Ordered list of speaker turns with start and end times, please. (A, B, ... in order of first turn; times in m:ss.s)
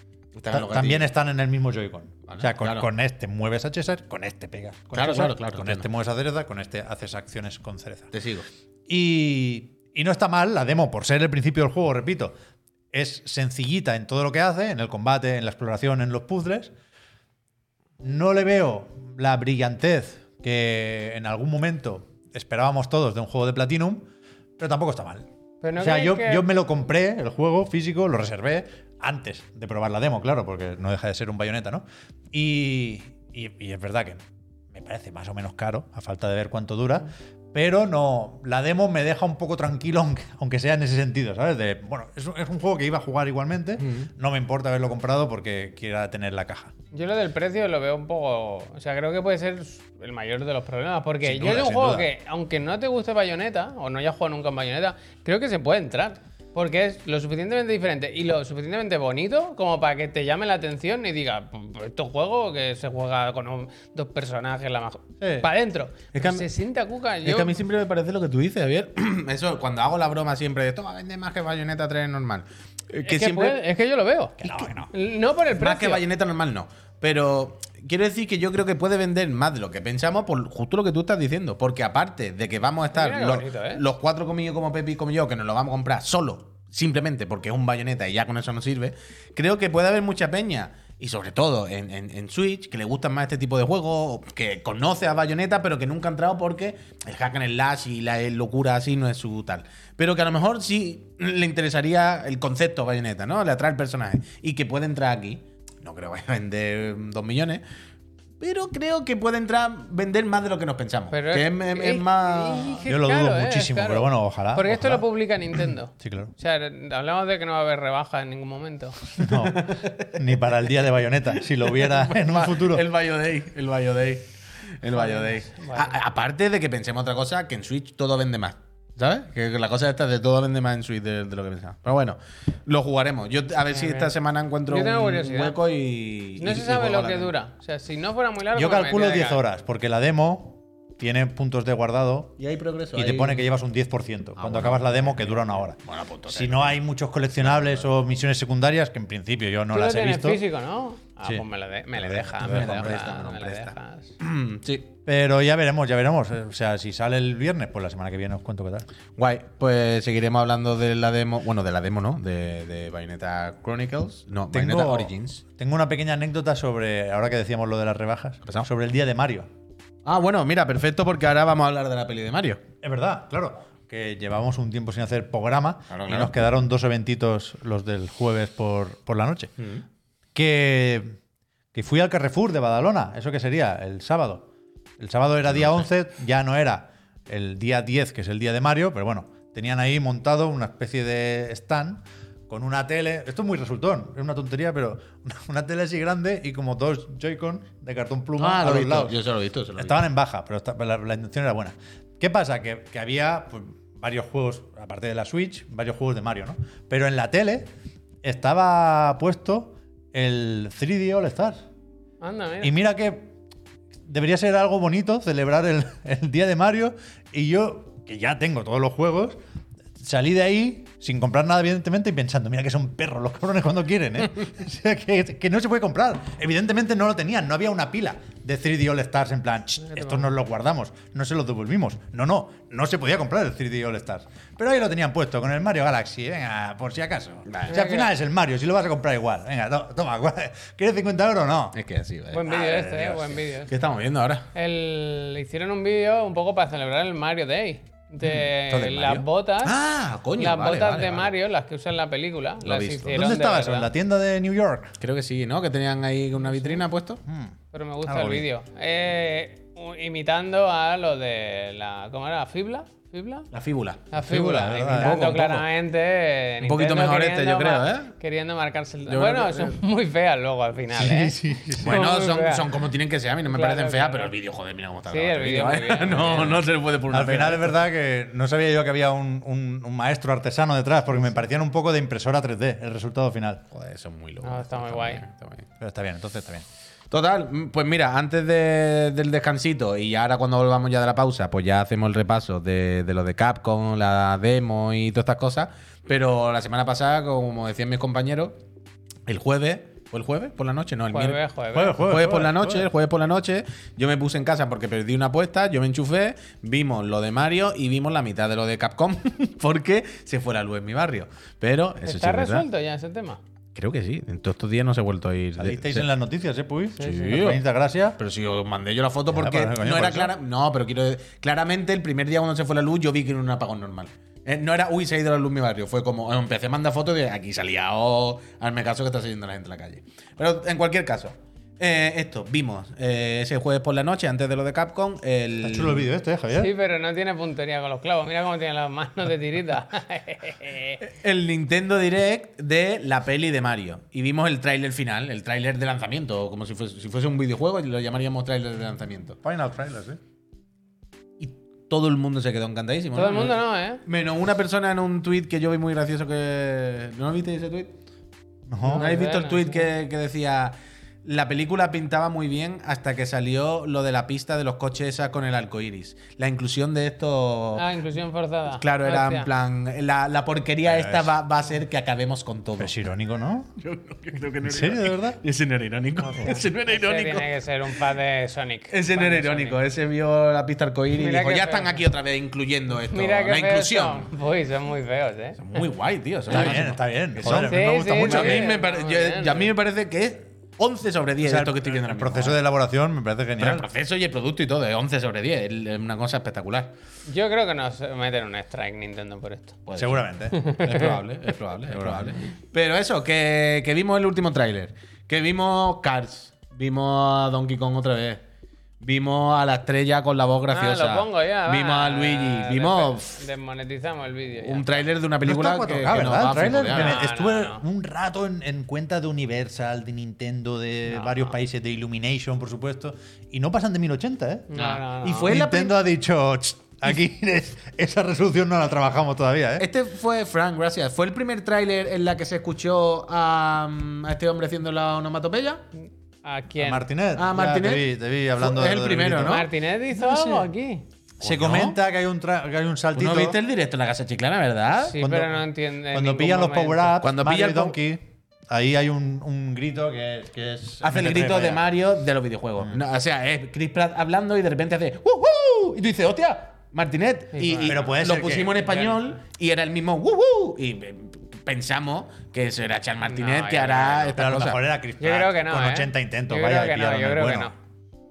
0:00.4-0:01.1 A
0:00.5-0:08.1 B
0:02.3-0:02.9 A
0:04.9-0:05.9 A
0:08.1-0:08.5 A
0:08.9-0:12.4 B
0:12.9-0:16.7 B
0:18.0-0:34.2 B
0:25.6-0:26.4 C
0:34.7-0:46.7 B
0:43.8-0:44.1 A
0:46.9-1:07.6 C
0:51.2-0:52.1 B
1:05.2-1:05.5 B
1:06.1-1:06.5 A
1:07.2-1:13.6 A
1:13.1-1:16.0 C
1:14.4-1:14.9 B
1:15.6-1:47.6 A
1:22.9-1:23.8 C
1:48.4-1:52.9 A
1:51.1-1:59.2 C
1:52.9-1:55.1 B
1:56.0-1:56.3 B
1:59.2-2:02.8 B
1:59.2-2:00.2 A
2:01.4-2:17.4 A
2:04.9-2:06.0 C
2:13.7-2:14.1 C
2:14.7-2:15.6 C
2:16.4-2:19.4 C
2:18.6-2:22.4 B
2:22.4-2:23.5 A
2:22.9-2:30.4 B
2:24.4-2:26.8 A
2:27.4-2:27.9 A
2:29.7-2:34.1 C
2:32.0-2:33.0 B
2:32.1-2:34.9 A
2:35.1-2:38.9 B
2:39.2-2:45.4 A
2:44.5-2:49.5 B
2:50.0-2:52.6 A
2:52.8-2:59.5 B
2:55.9-2:56.4 A
2:59.6-2:59.8 A
3:00.4-3:01.2 B
3:01.7-3:19.2 B
3:18.4-3:20.0 A
3:19.8-3:27.7 B
3:28.2-3:31.6 B
3:32.2-3:32.7 C
3:32.6-3:33.3 B
3:34.0-3:39.4 B
3:40.0-4:01.8 B
3:49.9-3:50.3 C
3:57.5-3:57.8 A
3:57.7-3:58.1 C
4:01.7-4:02.8 A
4:02.3-4:03.7 C
4:02.5-4:03.4 B
4:03.6-4:04.5 A
4:04.5-4:09.8 C
4:08.2-4:11.3 A
4:10.4-4:13.9 C
4:12.6-4:13.4 A
4:13.1-4:15.0 B
4:15.0-4:17.2 A
4:17.3-4:18.4 B
4:17.7-4:23.5 C
4:23.5-4:24.1 A
4:24.1-4:32.8 C
4:24.2-4:25.2 B
4:24.9-4:25.7 A
4:26.6-4:28.1 A
4:29.1-4:29.8 A
4:31.0-4:32.0 B
4:31.8-4:37.8 A
4:33.5-4:34.4 C
4:35.1-4:36.6 C
4:37.1-4:43.6 B
4:43.7-4:45.7 A
4:44.4-4:45.2 C
4:45.8-4:46.6 B
4:47.1-4:58.6 A
4:59.3-5:01.4 A
5:01.1-5:02.0 C
5:01.7-5:02.9 B
5:02.0-5:12.7 A
5:12.0-5:13.4 C
5:13.8-5:16.1 A
5:15.6-5:18.2 B
5:17.0-5:17.6 A
5:17.1-5:17.3 C
5:18.2-5:36.1 A
5:19.3-5:20.3 B
5:35.6-5:36.7 B
5:36.5-5:41.0 C
5:41.0-5:49.4 A
5:49.4-5:50.2 B
5:51.4-5:58.0 A
5:53.2-5:54.0 C
5:58.7-5:59.1 B
5:58.8-5:59.9 C
5:58.9-6:07.9 A
6:07.8-6:09.5 C
6:08.7-6:13.0 A
6:10.9-6:11.3 B
6:12.8-6:13.7 B
6:13.8-6:17.5 A
6:14.6-6:15.4 B
6:16.4-6:19.8 C
6:18.9-6:24.3 A
6:21.2-6:22.0 C
6:23.1-6:25.8 C
6:25.6-6:32.6 A
6:26.5-6:28.7 B
6:27.4-6:29.7 C
6:31.4-6:33.9 B
6:33.6-6:36.9 A
6:37.3-6:39.8 C
6:39.9-6:48.4 A
6:40.0-6:40.6 B
6:40.5-6:41.2 C
6:41.9-6:42.4 B
6:49.0-6:53.4 A
6:50.7-6:55.1 C
6:54.6-6:57.2 A
6:55.4-7:04.8 B
6:56.9-6:57.8 C
7:01.1-7:01.5 C
7:04.7-7:05.6 C
7:04.7-7:06.0 A
7:05.4-7:09.9 B
7:09.8-7:15.8 A
7:16.4-7:17.1 C
7:16.8-7:20.7 B
7:17.4-7:19.7 A
7:19.4-7:21.0 C
7:21.4-7:23.6 B
7:21.4-7:22.0 A
7:23.2-7:25.2 A
7:25.1-7:27.2 C
7:25.2-7:31.8 B
7:27.2-7:28.0 A
7:31.0-7:44.8 A
7:37.6-7:38.0 C
7:37.8-7:38.8 B
7:38.8-7:39.3 C
7:43.3-7:44.3 C
7:44.3-7:47.7 B
7:45.2-7:47.7 C